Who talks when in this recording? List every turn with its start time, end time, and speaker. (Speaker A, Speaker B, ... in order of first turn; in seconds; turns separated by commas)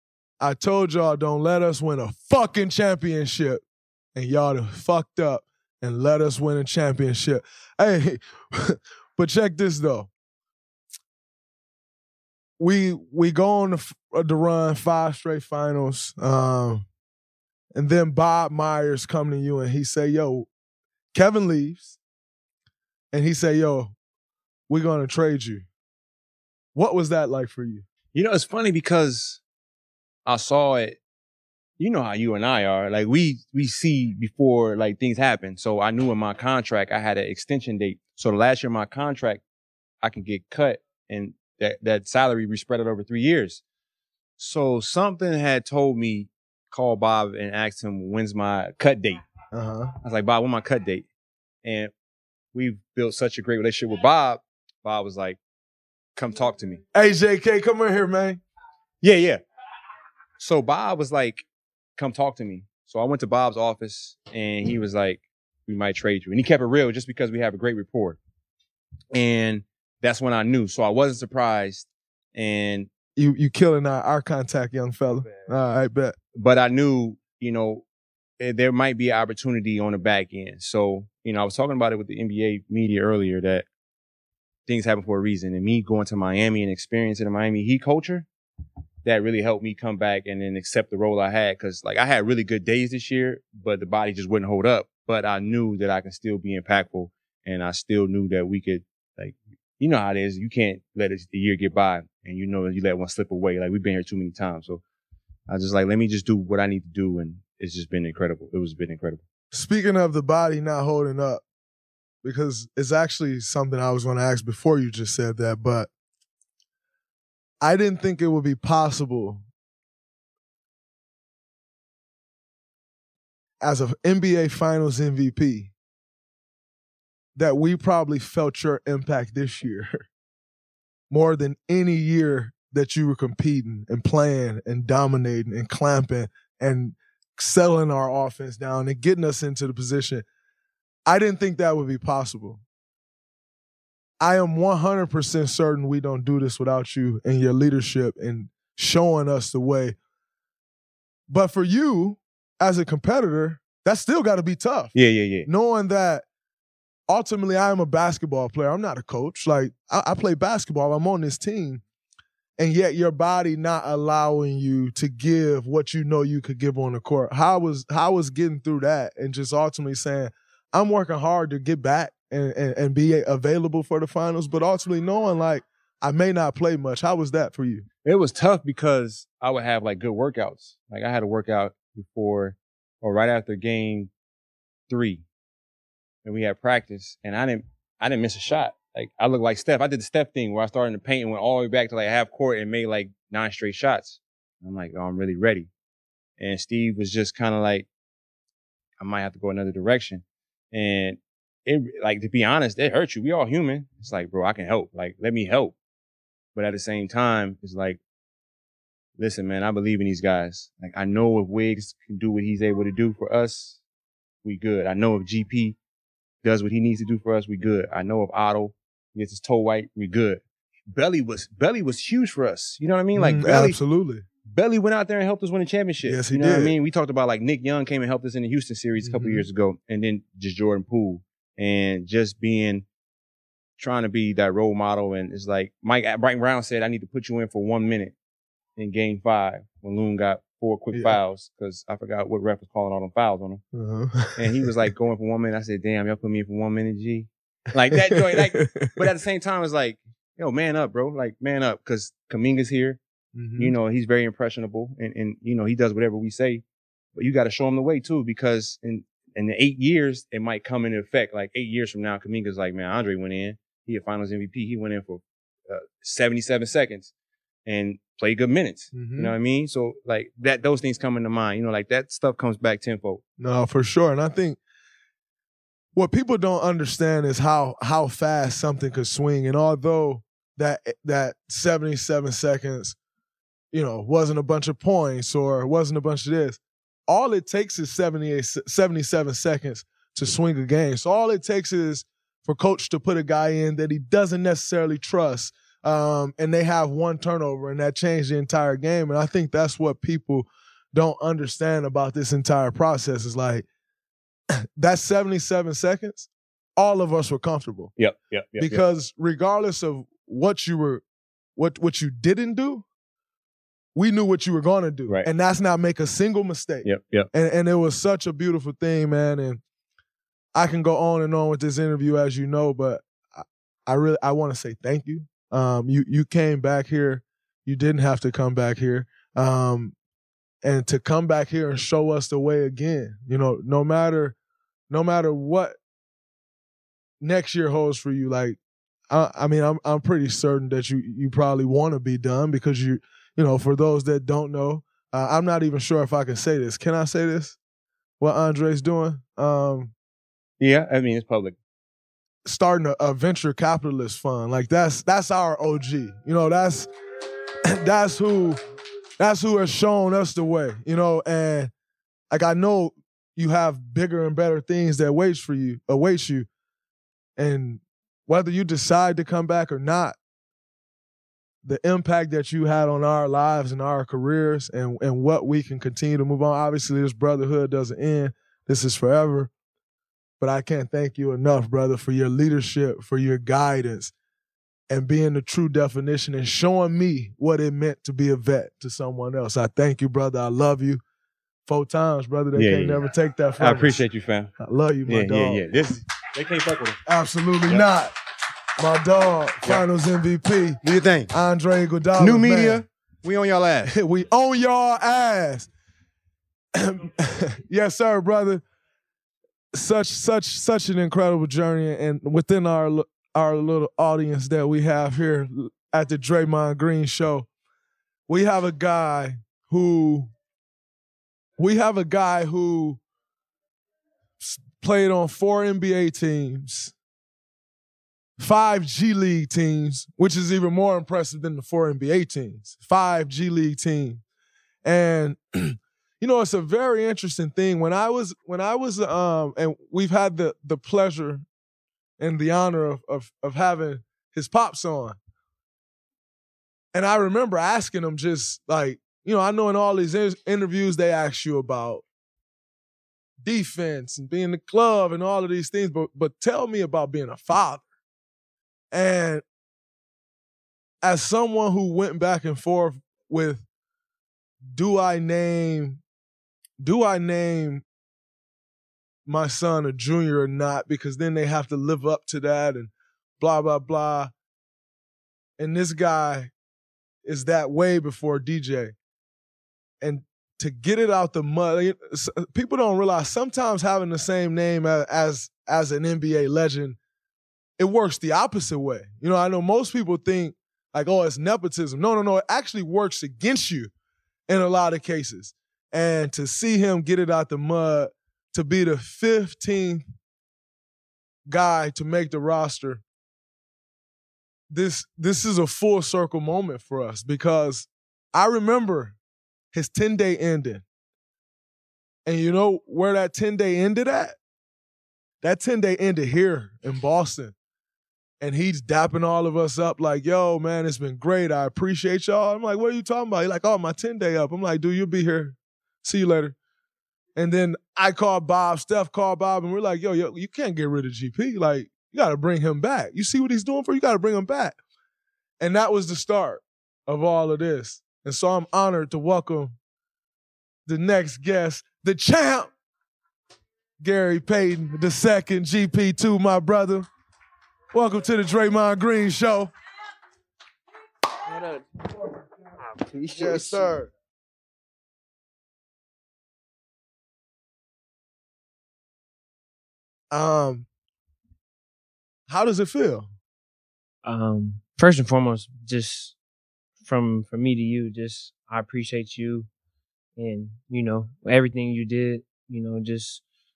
Speaker A: 0.4-3.6, Speaker A: 4.2-10.1, Speaker A: 12.6-16.9, Speaker A: 17.7-20.5, Speaker A: 21.1-22.0, Speaker A: 23.1-23.9, Speaker A: 24.7-25.7, Speaker A: 26.8-27.9, Speaker B: 28.1-29.4, Speaker B: 30.3-31.0, Speaker B: 31.8-39.4, Speaker B: 40.0-43.6, Speaker B: 44.4-49.2, Speaker A: 49.5-49.9, Speaker B: 50.0-51.1, Speaker B: 51.6-51.9, Speaker B: 52.5-55.4, Speaker B: 56.1-56.8, Speaker A: 56.9-58.4, Speaker B: 59.0-59.4, Speaker B: 60.4-61.5, Speaker B: 62.0-68.2, Speaker B: 69.1-72.9, Speaker A: 73.2-76.2, Speaker B: 76.3-77.8, Speaker B: 78.4-83.7, Speaker B: 84.7-88.3, Speaker B: 89.0-104.8, Speaker B: 105.5-109.2, Speaker A: 109.5-111.4, Speaker A: 112.2-115.9, Speaker A: 117.6-119.4, Speaker A: 123.6-125.7, Speaker A: 127.3-130.1, Speaker A: 131.1-140.2, Speaker A: 141.1-142.6, Speaker A: 144.2-150.0, Speaker A: 151.3-156.3, Speaker B: 154.9-155.5, Speaker A: 157.1-161.8, Speaker A: 162.6-177.9, Speaker B: 178.1-184.1, Speaker B: 184.9-185.2, Speaker B: 186.2-195.7, Speaker B: 196.4-197.9, Speaker B: 199.0-205.8, Speaker B: 206.6-208.0, Speaker B: 209.2-213.8, Speaker B: 214.4-215.8, Speaker B: 216.4-223.8, Speaker A: 223.2-224.2, Speaker B: 224.5-232.9, Speaker A: 226.0-226.8, Speaker A: 229.0-229.5, Speaker B: 233.8-238.2, Speaker B: 238.8-243.6, Speaker A: 240.9-241.2, Speaker A: 243.7-244.7, Speaker B: 244.4-253.0, Speaker A: 247.9-249.1, Speaker A: 253.3-253.8, Speaker B: 253.6-267.1, Speaker B: 267.7-273.2, Speaker A: 268.9-269.4, Speaker A: 273.4-274.6, Speaker A: 275.9-283.0, Speaker A: 283.7-303.7, Speaker A: 304.8-307.9, Speaker B: 308.0-308.8, Speaker A: 308.6-311.0, Speaker A: 311.6-312.9, Speaker A: 313.9-319.6, Speaker B: 316.8-317.3, Speaker A: 320.6-329.9, Speaker A: 330.6-334.4, Speaker A: 334.9-335.8, Speaker A: 337.2-338.6, Speaker A: 339.1-347.6, Speaker A: 348.2-349.9, Speaker B: 350.6-351.6, Speaker A: 352.4-356.9, Speaker A: 357.7-358.6, Speaker A: 359.2-361.7, Speaker A: 362.3-366.5, Speaker A: 367.4-370.2, Speaker A: 371.6-379.5, Speaker A: 380.4-384.1, Speaker A: 384.9-391.0, Speaker A: 391.7-394.0, Speaker B: 392.6-393.1, Speaker B: 393.6-394.5, Speaker A: 394.6-395.6, Speaker B: 395.1-397.0, Speaker A: 397.1-398.1, Speaker A: 398.8-400.8, Speaker B: 400.8-401.3, Speaker A: 401.3-402.9, Speaker B: 402.2-403.9, Speaker A: 403.8-405.7, Speaker A: 406.8-408.6, Speaker A: 409.7-417.5, Speaker A: 418.3-420.3, Speaker A: 421.6-423.0, Speaker A: 424.4-426.9, Speaker A: 428.4-434.2, Speaker A: 434.8-441.4, Speaker A: 442.2-445.2, Speaker A: 446.9-452.1, Speaker A: 453.4-457.9, Speaker A: 458.9-459.4, Speaker A: 461.0-463.6, Speaker A: 464.7-466.0, Speaker A: 466.8-467.8, Speaker A: 469.3-474.3, Speaker A: 475.6-476.5, Speaker A: 477.2-479.0, Speaker A: 480.0-487.0, Speaker A: 487.8-493.9, Speaker A: 494.5-500.1, Speaker A: 501.5-503.0, Speaker A: 504.7-509.2, Speaker A: 509.7-510.9, Speaker A: 512.3-514.4, Speaker A: 515.4-517.5, Speaker A: 518.4-526.6, Speaker A: 527.4-534.8, Speaker A: 535.6-539.7, Speaker A: 540.9-542.7, Speaker A: 544.0-547.1, Speaker A: 547.9-549.7, Speaker C: 551.5-551.8, Speaker C: 553.1-553.9, Speaker A: 553.2-554.1, Speaker A: 560.3-560.9, Speaker A: 562.5-563.3, Speaker C: 564.2-566.4, Speaker C: 567.0-569.7, Speaker C: 570.4-573.4